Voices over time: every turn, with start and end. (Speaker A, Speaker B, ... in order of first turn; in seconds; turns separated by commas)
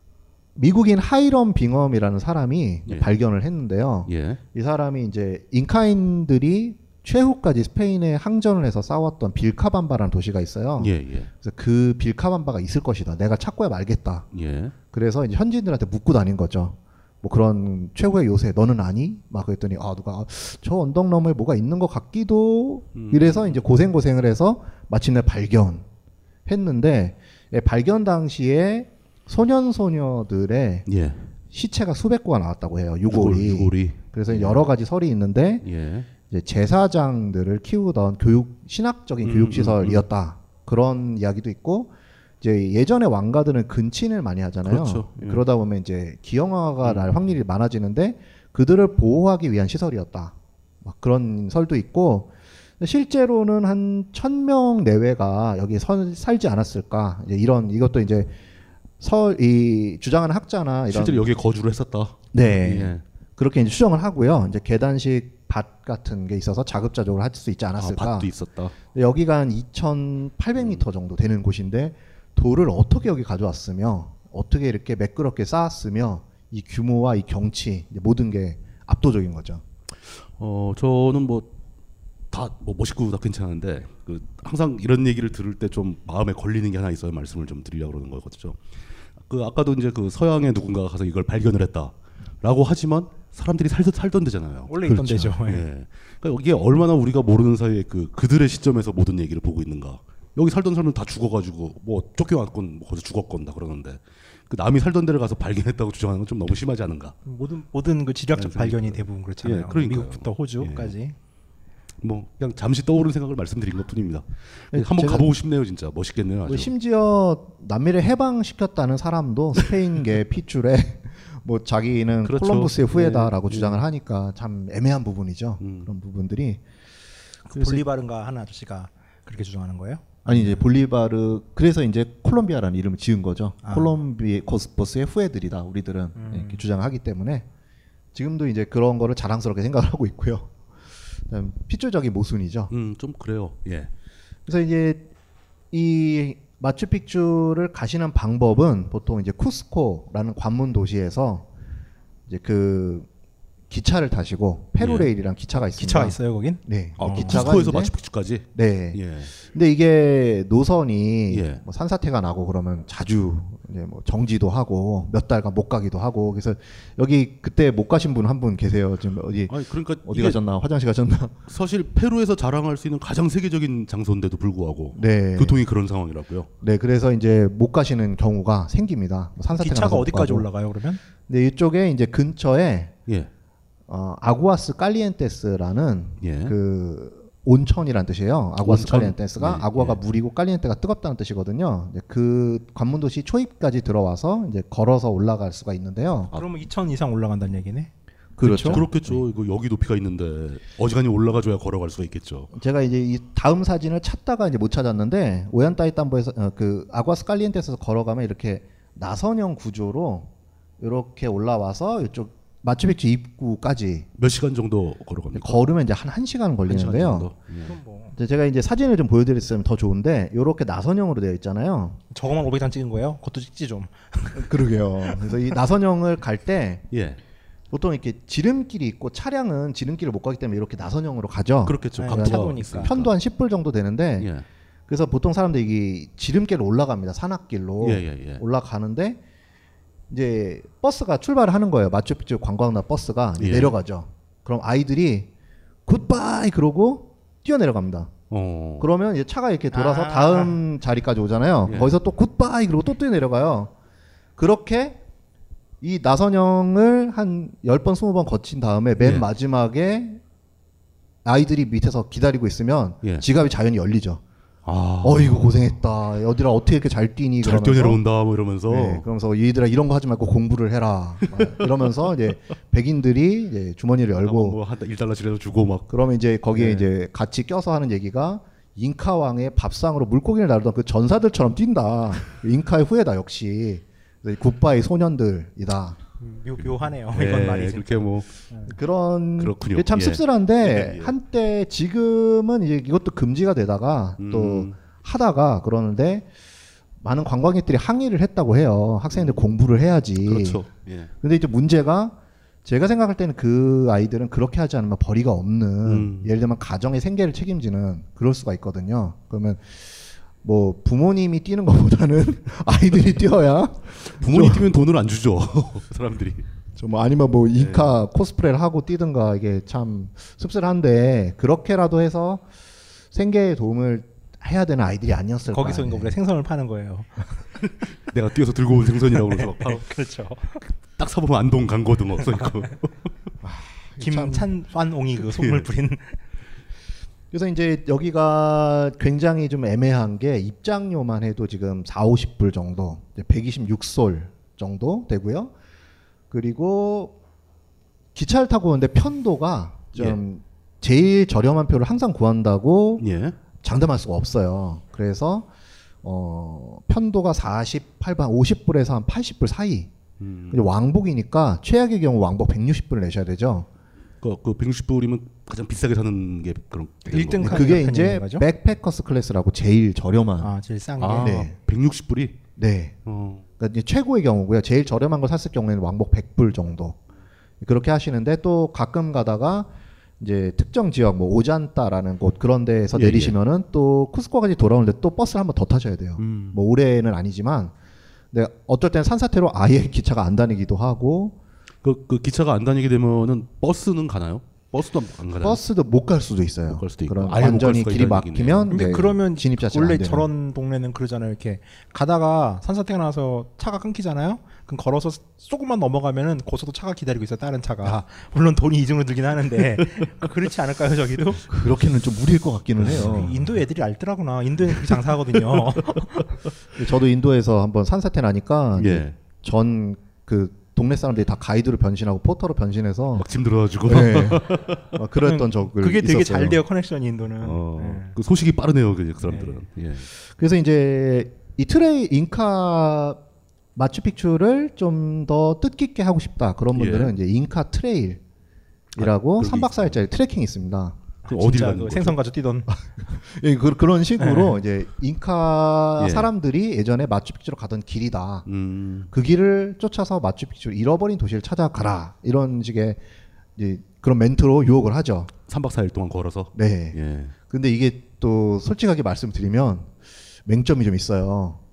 Speaker A: 0.6-14.2, Speaker B: 4.1-4.4, Speaker B: 10.8-11.3, Speaker B: 14.3-14.7, Speaker A: 14.9-25.9, Speaker B: 22.9-23.6, Speaker A: 26.5-30.9, Speaker B: 30.9-31.2, Speaker A: 31.5-35.6, Speaker B: 33.1-34.7, Speaker B: 35.6-36.1, Speaker A: 36.3-58.3, Speaker B: 39.2-40.0, Speaker B: 44.6-45.4, Speaker B: 46.8-47.1, Speaker A: 59.0-61.3, Speaker B: 60.9-63.0, Speaker A: 62.3-68.3, Speaker B: 67.8-68.7, Speaker A: 68.9-79.6, Speaker B: 80.3-81.5, Speaker B: 82.3-88.6, Speaker B: 89.2-107.1, Speaker C: 94.7-95.6, Speaker C: 107.2-111.1, Speaker B: 108.3-110.9, Speaker B: 112.0-116.7, Speaker A: 114.7-115.3, Speaker A: 116.5-126.6, Speaker B: 122.2-123.8, Speaker B: 125.6-125.9, Speaker C: 127.5-130.6, Speaker A: 127.6-127.8, Speaker A: 130.2-137.5, Speaker C: 133.6-133.9, Speaker C: 136.1-136.6, Speaker A: 138.1-140.5, Speaker A: 141.3-142.7, Speaker B: 142.7-143.9, Speaker A: 144.5-145.1, Speaker A: 145.7-151.5, Speaker A: 152.3-153.1, Speaker A: 153.7-157.9, Speaker B: 154.8-155.1, Speaker C: 155.7-157.5, Speaker B: 157.0-159.3, Speaker A: 158.5-171.4, Speaker B: 161.3-161.6, Speaker B: 169.5-170.4, Speaker B: 171.5-176.5, Speaker A: 174.9-175.6, Speaker A: 176.6-180.5, Speaker C: 179.6-181.0, Speaker A: 181.3-182.9, Speaker A: 183.9-196.3, Speaker B: 186.2-186.5, Speaker B: 188.6-190.0, Speaker C: 196.3-197.9, Speaker A: 198.4-199.2, Speaker B: 198.4-202.5, Speaker C: 198.4-198.8, Speaker A: 202.5-210.3, Speaker A: 210.8-214.1, Speaker B: 214.2-215.7, Speaker A: 215.3-217.3, Speaker B: 216.7-217.8, Speaker C: 217.6-218.2, Speaker A: 218.2-222.0, Speaker C: 222.1-224.5, Speaker A: 224.3-226.9, Speaker C: 225.1-225.3, Speaker B: 226.9-227.2, Speaker A: 227.7-234.3, Speaker B: 231.6-233.1, Speaker C: 232.0-232.9, Speaker B: 234.2-234.4, Speaker A: 234.9-239.2, Speaker B: 237.8-238.4, Speaker A: 240.1-245.3, Speaker B: 243.4-243.8, Speaker A: 245.8-248.1, Speaker B: 248.3-248.9, Speaker A: 248.8-253.7, Speaker C: 249.7-250.6, Speaker B: 251.7-251.9, Speaker A: 254.4-255.0, Speaker A: 255.8-260.2, Speaker B: 259.0-259.3, Speaker A: 261.2-264.2, Speaker B: 264.6-265.5, Speaker A: 265.0-268.0, Speaker B: 267.4-269.0, Speaker A: 268.7-274.6, Speaker B: 271.3-271.6, Speaker B: 274.2-275.9, Speaker A: 275.9-286.0, Speaker B: 276.5-276.9, Speaker C: 286.2-288.7, Speaker B: 287.1-288.3, Speaker A: 288.7-296.3, Speaker B: 289.4-291.1, Speaker B: 294.2-294.8, Speaker A: 297.0-300.6, Speaker B: 299.1-299.4, Speaker B: 300.2-301.1, Speaker A: 301.2-314.7, Speaker B: 305.8-306.3, Speaker B: 314.1-316.4, Speaker A: 316.8-322.4, Speaker B: 317.5-317.9, Speaker A: 323.1-326.1, Speaker C: 325.5-327.4, Speaker B: 328.0-329.8, Speaker C: 329.1-330.6, Speaker B: 331.0-332.9, Speaker A: 333.4-334.5, Speaker C: 334.0-336.2, Speaker B: 335.2-335.7, Speaker A: 337.3-345.5, Speaker A: 346.3-347.1, Speaker A: 348.1-353.0, Speaker B: 349.9-350.2, Speaker B: 353.0-353.4, Speaker A: 353.6-355.5, Speaker A: 356.0-359.9, Speaker B: 360.2-360.6, Speaker A: 360.5-363.7, Speaker B: 364.2-367.8, Speaker C: 367.1-368.4, Speaker A: 367.4-370.5, Speaker C: 370.4-371.5, Speaker B: 371.0-372.4, Speaker A: 371.1-371.5, Speaker A: 372.6-372.9, Speaker B: 373.1-373.4, Speaker A: 373.6-377.0, Speaker A: 377.6-387.7, Speaker B: 382.9-383.4, Speaker B: 386.2-386.6, Speaker A: 388.3-391.4, Speaker B: 391.8-395.6, Speaker A: 395.4-400.3, Speaker B: 396.7-399.0, Speaker C: 398.7-411.4, Speaker A: 411.5-413.3, Speaker C: 412.8-416.4, Speaker B: 412.9-413.3, Speaker A: 416.8-423.3, Speaker B: 418.8-419.1, Speaker B: 423.1-424.9, Speaker A: 423.9-426.6, Speaker C: 425.2-428.1, Speaker B: 427.4-430.1, Speaker A: 430.2-433.2, Speaker A: 433.8-438.2, Speaker B: 436.7-437.1, Speaker B: 438.9-440.0, Speaker A: 438.9-441.0, Speaker C: 441.2-442.7, Speaker B: 441.3-442.2, Speaker A: 442.8-448.5, Speaker C: 444.2-444.6, Speaker B: 446.0-446.3, Speaker B: 448.5-449.1, Speaker A: 449.1-453.0, Speaker A: 453.6-455.3, Speaker B: 455.5-457.3, Speaker A: 456.5-459.9, Speaker A: 460.4-461.6